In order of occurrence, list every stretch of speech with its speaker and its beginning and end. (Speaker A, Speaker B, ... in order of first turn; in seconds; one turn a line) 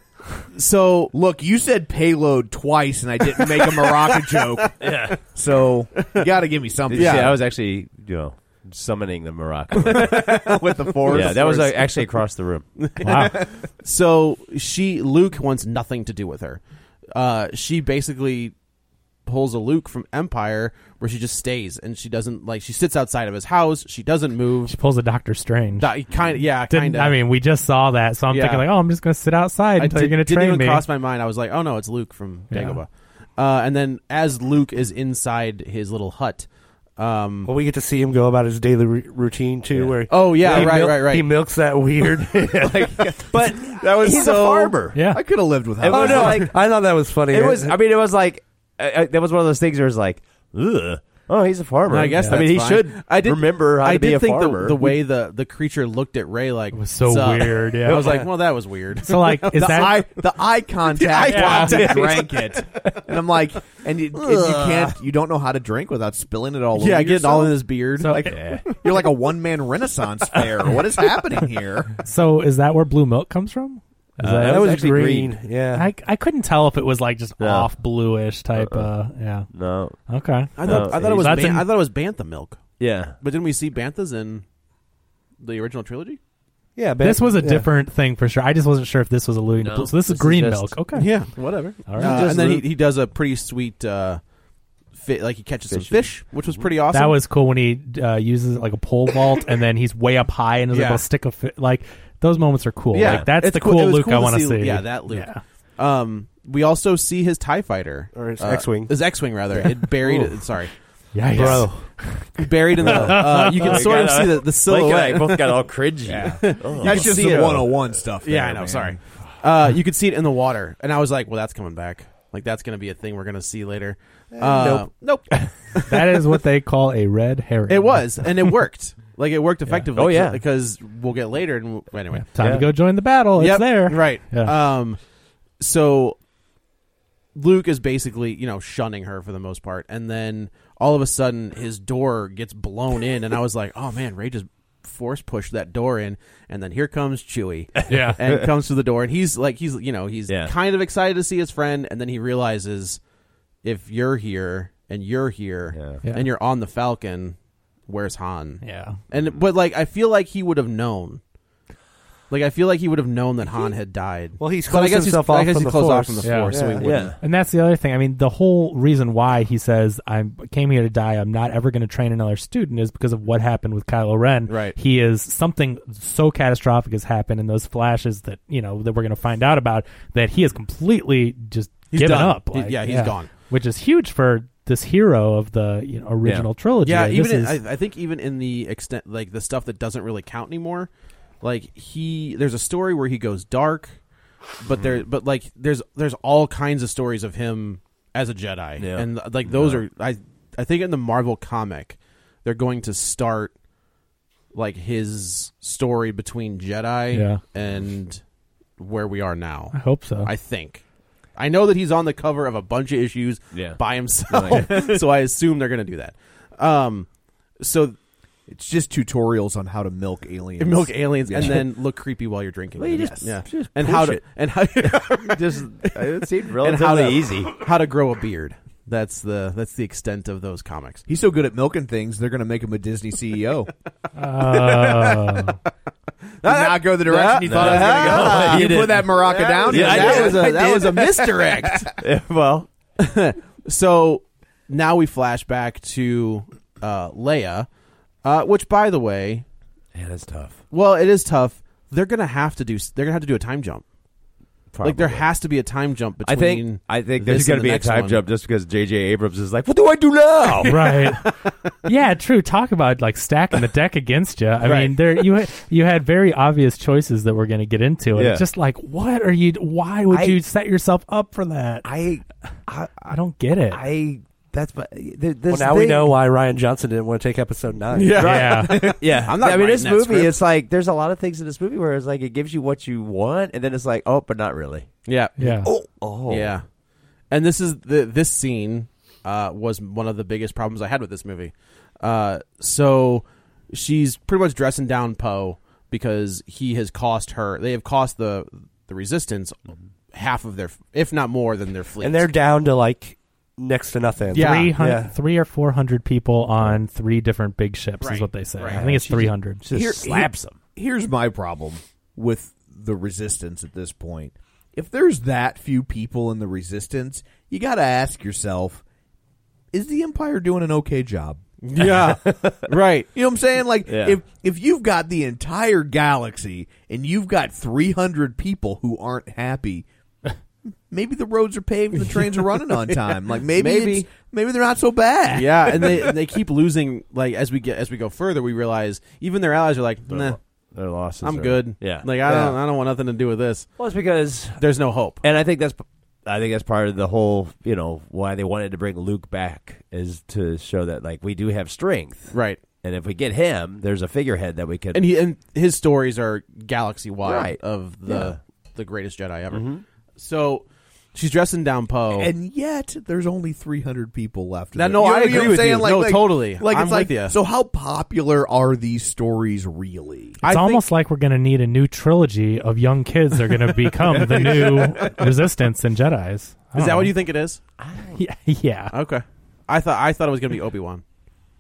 Speaker A: 0.5-1.1
Speaker B: 1.1-7.4
Speaker A: 3.4-4.7
Speaker C: 4.8-5.2
Speaker A: 6.0-6.3
Speaker C: 6.9-12.7
Speaker A: 6.9-7.4
Speaker A: 9.8-11.6
Speaker B: 9.9-11.9
Speaker A: 12.8-16.6
Speaker D: 13.0-13.3
Speaker A: 17.1-18.5
Speaker A: 19.3-24.8
Speaker D: 24.7-25.9
Speaker A: 25.8-27.2
Speaker D: 26.7-30.8
Speaker A: 28.3-28.7
Speaker A: 29.8-37.5
Speaker D: 32.5-32.8
Speaker E: 37.5-42.9
Speaker C: 39.7-40.8
Speaker A: 40.1-41.3
Speaker B: 42.6-46.5
Speaker C: 42.9-45.0
Speaker A: 44.1-44.7
Speaker D: 44.9-45.2
Speaker C: 45.8-55.0
Speaker E: 45.9-47.8
Speaker A: 51.9-60.1
Speaker D: 56.7-58.3
Speaker C: 57.9-58.2
Speaker D: 59.0-60.0
Speaker B: 59.5-67.6
Speaker A: 60.9-62.6
Speaker D: 61.3-61.9
Speaker C: 61.5-63.0
Speaker A: 64.3-64.8
Speaker C: 64.5-64.8
Speaker A: 66.8-69.1
Speaker D: 68.0-68.4
Speaker C: 68.1-68.7
Speaker B: 68.8-71.9
Speaker D: 72.0-74.7
Speaker C: 74.2-75.4
Speaker E: 74.2-75.9
Speaker D: 75.8-79.5
Speaker C: 77.4-77.7
Speaker C: 78.6-78.9
Speaker C: 79.5-80.0
Speaker D: 80.1-81.7
Speaker A: 80.6-84.5
Speaker C: 80.6-81.3
Speaker C: 82.8-83.2
Speaker A: 85.4-86.2
Speaker E: 86.8-87.7
Speaker D: 87.0-91.2
Speaker C: 89.6-90.8
Speaker A: 90.9-94.2
Speaker D: 91.9-92.2
Speaker C: 92.0-92.7
Speaker A: 94.9-97.2
Speaker C: 95.7-96.7
Speaker D: 96.9-105.4
Speaker A: 100.7-101.0
Speaker A: 102.9-110.7
Speaker C: 103.0-103.3
Speaker E: 108.1-110.3
Speaker D: 111.2-113.9
Speaker E: 111.3-111.9
Speaker A: 111.4-111.7
Speaker A: 112.4-126.2
Speaker C: 112.8-117.8
Speaker B: 116.1-119.0
Speaker E: 124.4-124.9
Speaker D: 125.9-128.1
Speaker A: 127.7-132.3
Speaker C: 129.9-130.4
Speaker D: 132.1-134.5
Speaker C: 132.4-132.7
Speaker A: 133.4-135.0
Speaker A: 135.6-136.2
Speaker A: 137.3-153.0
Speaker C: 147.9-148.4
Speaker D: 147.9-148.2
Speaker C: 150.3-150.5
Speaker A: 153.6-157.4
Speaker C: 155.7-156.0
Speaker D: 156.0-156.3
Speaker A: 157.9-161.2
Speaker D: 158.6-159.0
Speaker C: 159.2-159.4
Speaker A: 162.3-167.1
Speaker E: 164.4-167.1
Speaker D: 166.2-187.6
Speaker C: 166.8-167.2
Speaker A: 174.5-174.8
Speaker A: 181.9-183.3
Speaker A: 186.8-194.0
Speaker A: 194.6-203.5
Speaker C: 194.8-195.0
Speaker C: 198.8-199.8
Speaker A: 204.5-208.2
Speaker D: 207.1-207.4
Speaker A: 208.8-210.8
Speaker D: 209.7-210.3
Speaker A: 211.3-217.1
Speaker C: 213.5-214.9
Speaker A: 217.6-218.0
Speaker B: 218.5-221.7
Speaker A: 220.6-231.0
Speaker C: 222.8-227.6
Speaker B: 222.9-223.3
Speaker B: 231.1-233.7
Speaker D: 234.2-235.6
Speaker A: 236.4-241.9
Speaker B: 236.4-241.7
Speaker C: 237.4-242.7
Speaker A: 243.0-247.7
Speaker A: 248.2-249.4
Speaker C: 249.9-250.6
Speaker A: 250.7-253.8
Speaker C: 254.7-255.3
Speaker A: 254.8-258.2
Speaker C: 256.2-261.0
Speaker D: 260.6-261.3
Speaker D: 261.9-271.9
Speaker A: 264.6-265.2
Speaker C: 268.1-268.4
Speaker C: 270.1-270.4
Speaker C: 271.8-273.2
Speaker D: 273.1-273.8
Speaker C: 273.7-276.2
Speaker E: 275.5-278.2
Speaker A: 277.9-280.4
Speaker C: 278.2-286.6
Speaker D: 278.2-278.8
Speaker A: 285.1-285.4
Speaker D: 285.4-285.7
Speaker A: 286.3-286.6
Speaker A: 287.3-302.3
Speaker E: 302.0-305.1
Speaker A: 304.3-304.7
Speaker D: 304.3-309.6
Speaker A: 308.0-308.8
Speaker C: 308.7-310.6
Speaker B: 309.7-318.8
Speaker B: 319.7-321.4
Speaker A: 321.6-323.1
Speaker C: 321.8-322.6
Speaker B: 323.1-329.9
Speaker C: 323.9-324.2
Speaker B: 330.9-336.2
Speaker A: 332.1-334.1
Speaker A: 335.3-340.4
Speaker C: 340.1-342.4
Speaker A: 341.2-343.7
Speaker B: 342.2-342.6
Speaker C: 343.8-344.6
Speaker A: 344.6-345.2
Speaker C: 345.2-355.1
Speaker A: 352.3-352.6
Speaker A: 354.9-362.3
Speaker C: 357.2-358.4
Speaker C: 359.5-359.8
Speaker B: 362.1-370.4
Speaker A: 364.8-367.4
Speaker A: 370.4-370.8
Speaker D: 370.4-377.1
Speaker C: 374.4-374.9
Speaker A: 376.8-377.6
Speaker C: 377.8-378.2
Speaker D: 378.1-378.9
Speaker A: 378.9-381.0